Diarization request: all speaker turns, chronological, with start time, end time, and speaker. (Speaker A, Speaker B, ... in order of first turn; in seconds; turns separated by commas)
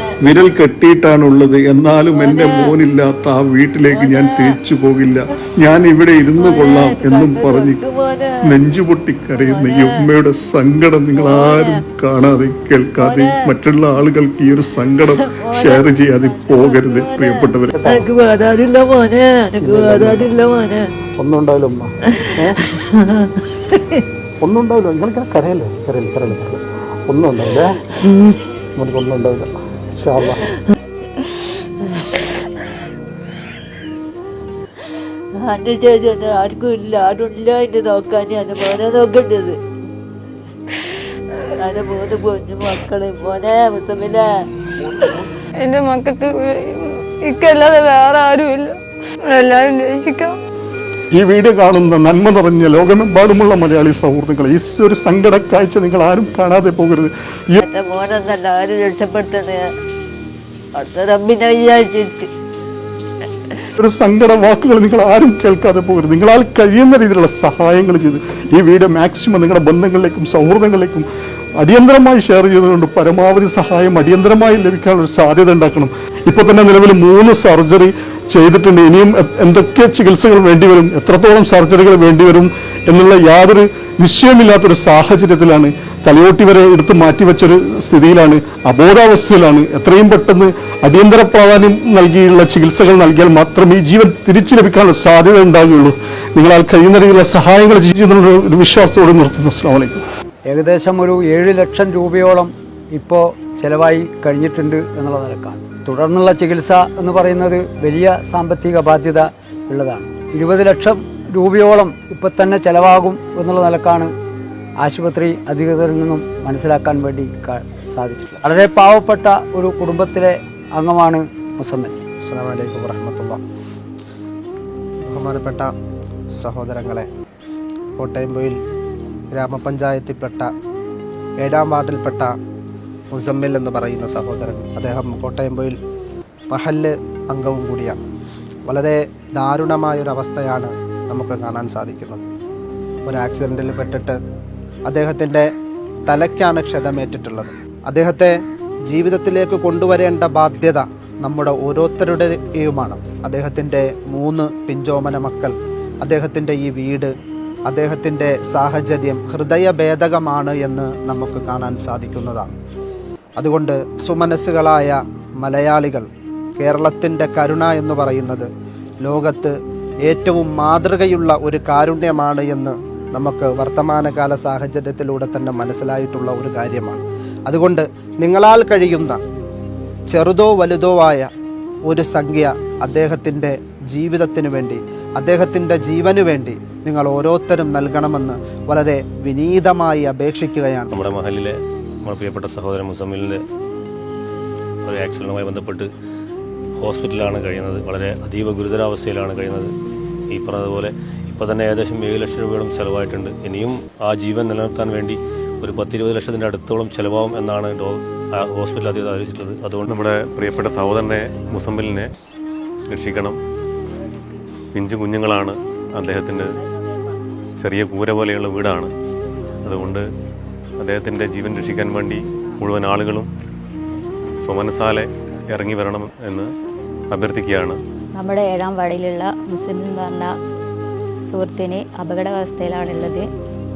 Speaker A: 0.2-7.8, Speaker B: 2.1-2.8, Speaker B: 3.9-4.6, Speaker B: 6.4-8.6, Speaker A: 8.4-17.8, Speaker B: 9.3-10.1, Speaker B: 11.1-11.8, Speaker B: 13.0-13.5, Speaker B: 15.2-20.9, Speaker C: 17.8-18.1, Speaker C: 19.6-20.3, Speaker C: 21.2-22.6, Speaker B: 22.1-23.0, Speaker B: 23.7-24.0, Speaker C: 24.4-27.8, Speaker C: 28.8-30.4, Speaker B: 35.4-39.6, Speaker B: 41.6-44.2, Speaker D: 45.6-50.4, Speaker C: 51.1-57.6, Speaker B: 57.6-59.6, Speaker B: 60.8-62.3, Speaker C: 63.8-71.1, Speaker C: 71.6-100.0, Speaker E: 100.5-114.1, Speaker E: 114.8-122.0, Speaker F: 122.2-123.4, Speaker F: 125.1-125.7, Speaker F: 126.4-127.1, Speaker F: 128.0-128.6, Speaker F: 129.3-130.5, Speaker F: 131.4-132.3, Speaker F: 133.1-135.8, Speaker F: 136.5-138.0, Speaker F: 138.7-142.2, Speaker F: 143.1-144.2, Speaker F: 144.9-145.5, Speaker F: 146.1-148.3, Speaker F: 148.9-157.1, Speaker F: 157.7-162.5, Speaker F: 163.4-166.1, Speaker F: 166.6-168.5, Speaker F: 169.1-169.5, Speaker F: 170.1-179.2, Speaker F: 180.1-181.3, Speaker F: 181.9-191.1, Speaker G: 190.9-193.4, Speaker G: 194.9-195.9, Speaker G: 196.8-199.7, Speaker G: 200.3-209.9, Speaker H: 209.9-212.1, Speaker H: 212.9-213.4, Speaker H: 214.8-216.5, Speaker H: 217.6-218.9, Speaker H: 219.7-220.1, Speaker H: 220.8-223.3, Speaker H: 224.4-226.5, Speaker H: 227.1-227.8, Speaker I: 228.2-230.3, Speaker I: 231.3-233.3